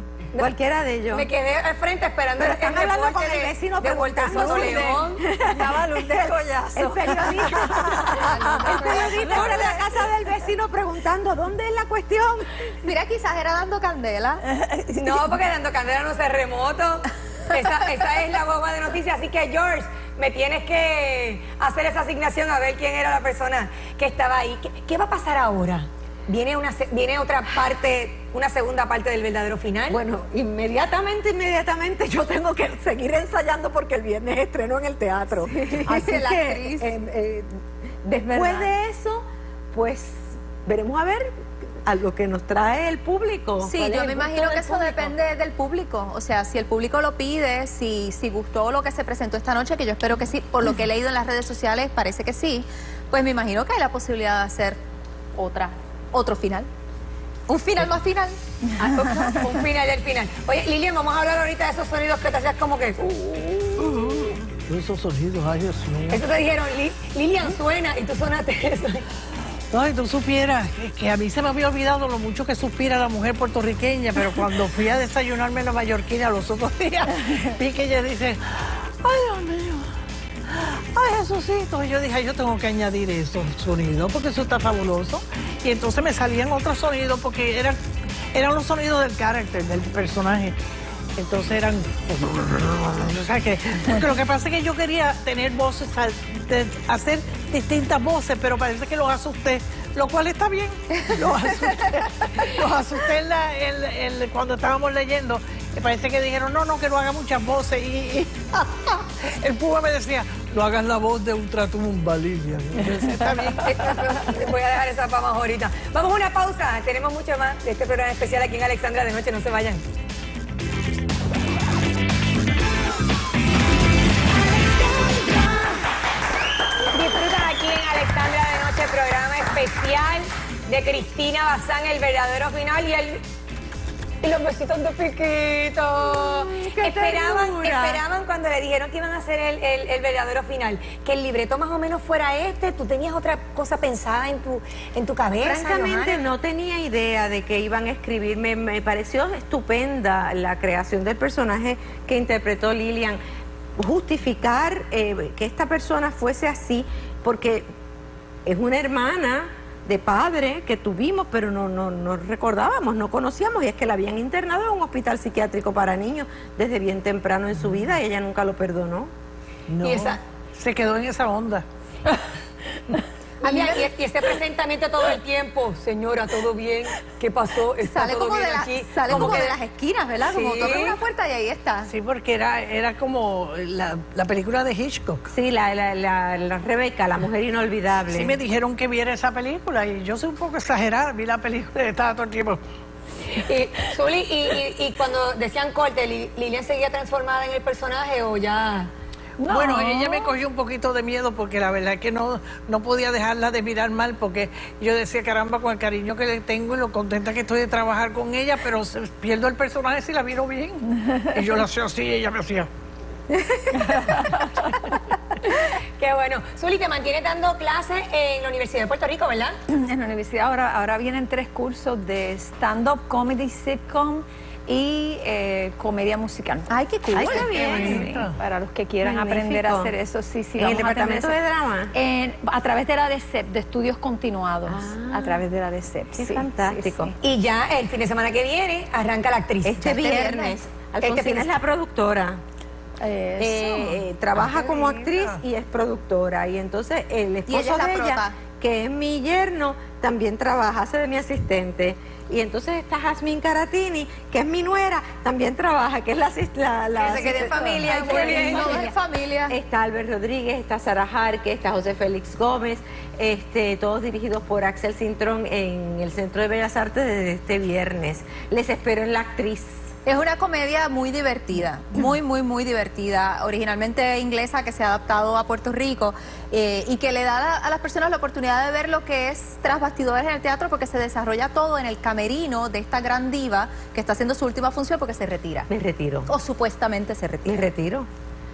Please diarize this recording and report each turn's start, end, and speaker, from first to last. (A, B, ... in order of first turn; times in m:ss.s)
0:00.3-0:01.3 A
0:01.1-0:05.2 B
0:02.4-0:12.6 A
0:04.3-0:05.0 C
0:05.5-0:09.8 C
0:08.2-0:09.7 B
0:12.8-0:14.4 D
0:14.6-0:14.9 C
0:14.9-0:30.0 B
0:29.9-0:44.9 A
0:35.7-0:36.9 D
0:38.3-0:38.6 D
0:43.6-0:54.8 D
0:44.0-0:45.1 B
0:55.4-0:56.7 D
0:57.5-0:58.4 D
0:58.8-1:04.3 B
1:03.8-1:06.2 E
1:06.1-1:09.0 B
1:09.7-1:19.9 E
1:20.5-1:27.8 E
1:28.3-1:30.6 E
1:31.2-1:54.1 E
1:53.6-1:59.8 B
2:04.6-2:05.8 B
2:06.9-2:13.2 B
2:14.2-2:26.2 B
2:16.0-2:18.0 A
2:25.4-2:33.2 A
2:33.8-2:37.7 A
2:38.4-2:49.1 A
2:49.7-2:51.6 E
2:49.8-2:50.2 B
2:53.4-2:59.6 B
2:53.4-2:53.9 D
2:57.8-3:01.9 D
2:59.1-2:59.4 A
3:00.2-3:01.0 B
3:01.9-3:05.2 E
3:05.3-3:08.4 A
3:08.1-3:12.6 E
3:13.3-3:18.9 B
3:19.4-3:20.3 C
3:19.5-3:32.7 E
3:35.5-3:39.6 B
3:39.7-3:51.4 C
3:46.7-3:47.9 D
3:47.1-3:48.1 A
3:47.2-3:48.4 E
3:49.0-3:49.9 A
3:50.6-3:51.9 A
3:51.9-3:57.2 C
3:54.7-3:55.4 A
3:56.1-3:57.1 A
3:57.2-3:59.9 B
3:59.6-4:02.4 A
3:59.8-4:00.6 D
4:01.0-4:01.5 B
4:03.0-4:05.2 C
4:03.4-4:18.9 A
4:07.5-4:08.4 D
4:17.0-4:18.9 B
4:17.0-4:19.6 D
4:19.5-4:29.8 A
4:30.0-4:45.7 D
4:45.7-4:46.3 A
4:46.3-4:47.7 D
4:47.4-4:48.1 A